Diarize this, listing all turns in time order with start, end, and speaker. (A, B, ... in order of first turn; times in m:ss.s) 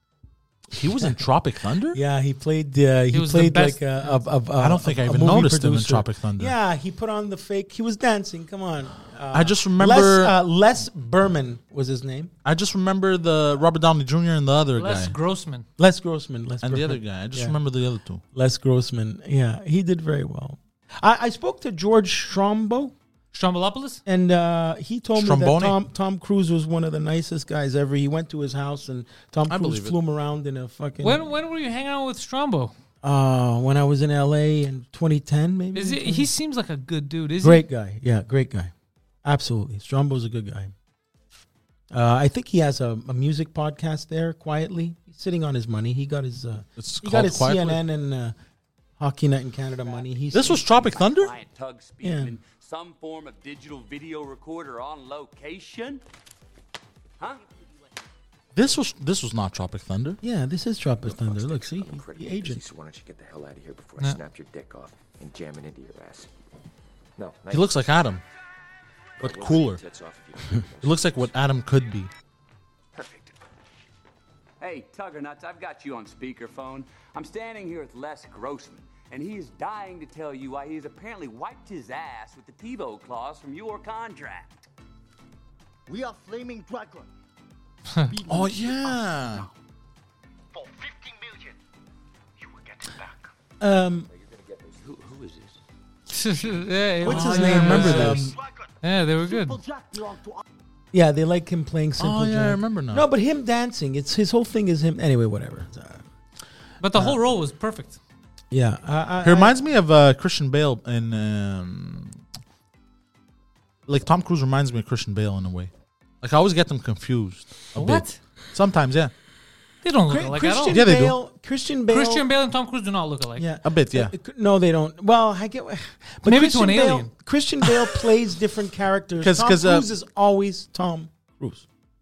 0:00.7-0:02.0 A
0:01.9-0:12.3 B
0:03.1-0:04.2 C
0:04.6-0:06.6 A
0:09.3-0:10.4 A
0:12.4-0:15.2 A
0:14.8-0:15.7 C
0:15.8-0:17.6 B
0:16.6-0:18.2 A
0:18.3-0:22.9 B
0:23.3-0:24.0 C
0:24.1-0:31.2 B
0:25.2-0:25.8 A
0:29.5-0:30.0 A
0:31.0-0:32.7 C
0:33.0-0:36.3 B
0:35.7-0:37.6 C
0:37.4-0:38.7 B
0:39.2-0:40.7 B
0:41.9-0:48.4 B
0:46.8-0:47.8 A
0:49.0-0:50.9 B
0:50.3-0:51.4 A
0:50.9-0:56.0 D
0:52.0-0:52.4 B
0:57.2-0:57.4 D
0:58.6-1:00.2 A
1:00.2-1:02.6 B
1:01.0-1:06.3 E
1:07.2-1:07.9 E
1:07.5-1:08.2 A
1:09.2-1:11.2 E
1:09.2-1:09.8 A
1:10.8-1:12.1 A
1:13.0-1:13.4 E
1:14.6-1:24.6 D
1:25.9-1:27.1 F
1:28.1-1:29.5 F
1:28.3-1:29.5 A
1:30.5-1:31.6 F
1:32.4-1:33.3 F
1:33.6-1:34.1 B
1:34.1-1:35.6 E
1:36.1-1:38.2 C
1:37.0-1:38.3 B
1:37.1-1:40.4 F
1:37.4-1:38.3 A
1:38.8-1:39.6 C
1:40.9-1:46.0 B
1:42.0-1:43.1 A
1:46.8-1:48.0 C
1:48.5-1:49.6 B
1:49.2-1:52.2 A
1:53.9-1:59.1 A
1:57.8-1:58.2 C
1:59.8-2:00.8 C
2:00.1-2:02.3 B
2:00.7-2:01.2 A
2:01.9-2:03.5 C
2:03.4-2:11.6 B
2:03.6-2:04.1 A
2:06.2-2:07.1 C
2:09.2-2:09.9 A